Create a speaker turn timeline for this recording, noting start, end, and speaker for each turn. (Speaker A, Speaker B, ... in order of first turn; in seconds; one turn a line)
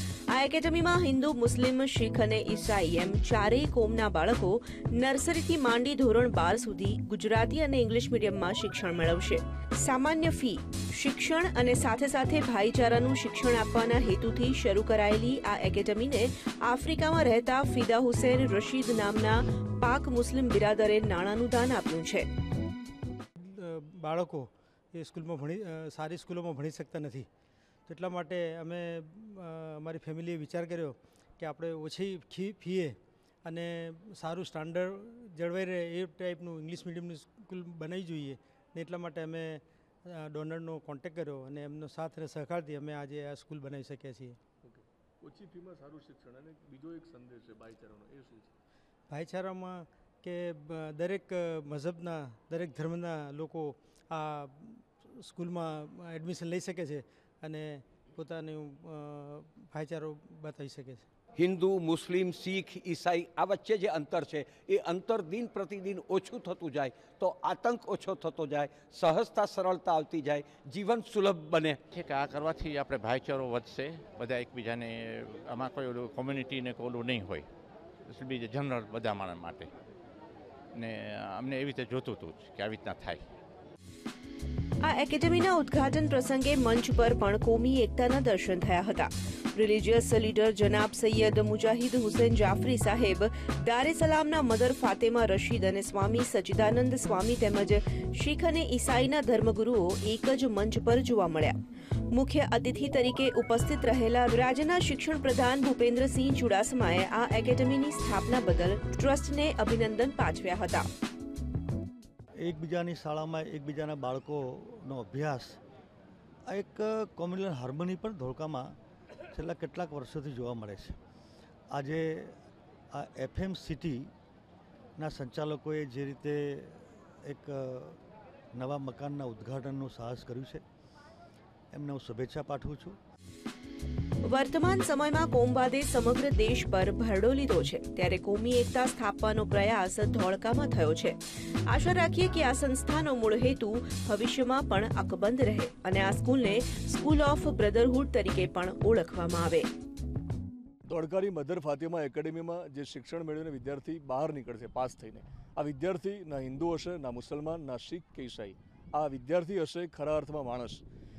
Speaker A: 0.3-22.3
Speaker B: 23.4-27.3
Speaker B: 27.9-44.4
Speaker C: 44.6-48.5
Speaker B: 49.1-61.0
Speaker D: 61.4-71.8
Speaker E: 71.9-77.5
Speaker E: 78.0-79.7
Speaker E: 80.7-83.2
Speaker A: 84.8-101.6
Speaker A: 102.1-110.9
Speaker F: 112.4-115.6
Speaker F: 116.5-118.7
Speaker F: 119.3-121.0
Speaker F: 121.7-122.4
Speaker F: 122.9-124.1
Speaker F: 125.0-128.0
Speaker F: 128.6-130.6
Speaker F: 131.7-133.0
Speaker A: 134.2-149.7
Speaker C: 150.9-160.8